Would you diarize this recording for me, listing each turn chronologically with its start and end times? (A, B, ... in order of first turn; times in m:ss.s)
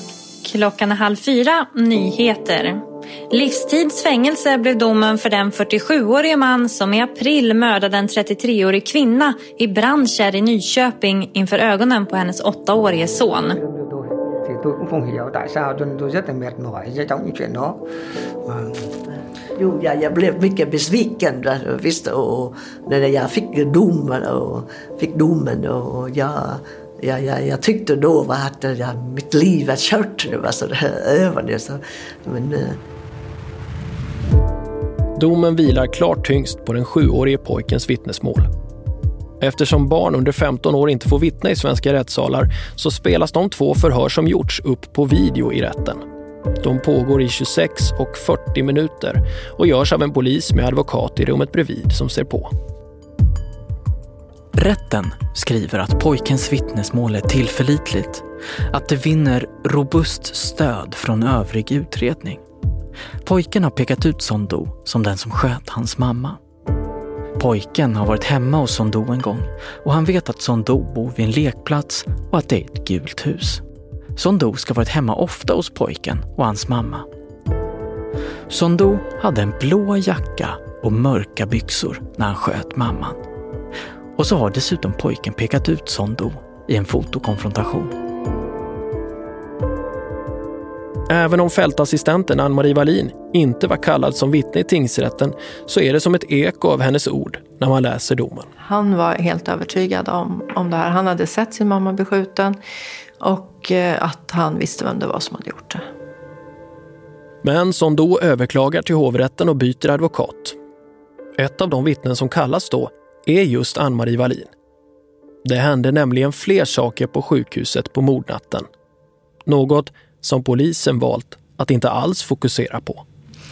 0:00.4-0:13.6 A
0:13.6-0:17.8 B
0:18.4-0:18.8 B
0:19.6-0:32.8 C
0:35.2-0:38.5 D
0:39.4-0:46.0 D
0:46.6-0:52.5 D
0:54.5-1:02.4 E
1:03.2-1:06.4 E
1:07.4-1:13.6 E
1:14.2-1:17.1 E
1:18.5-1:23.2 E
1:24.2-1:27.9 E
1:31.1-1:38.5 D
1:38.6-1:42.6 F
1:43.2-1:45.8 F
1:47.4-1:50.6 D
1:51.4-1:54.5 D
1:55.4-1:58.7 D
1:59.4-2:03.0 D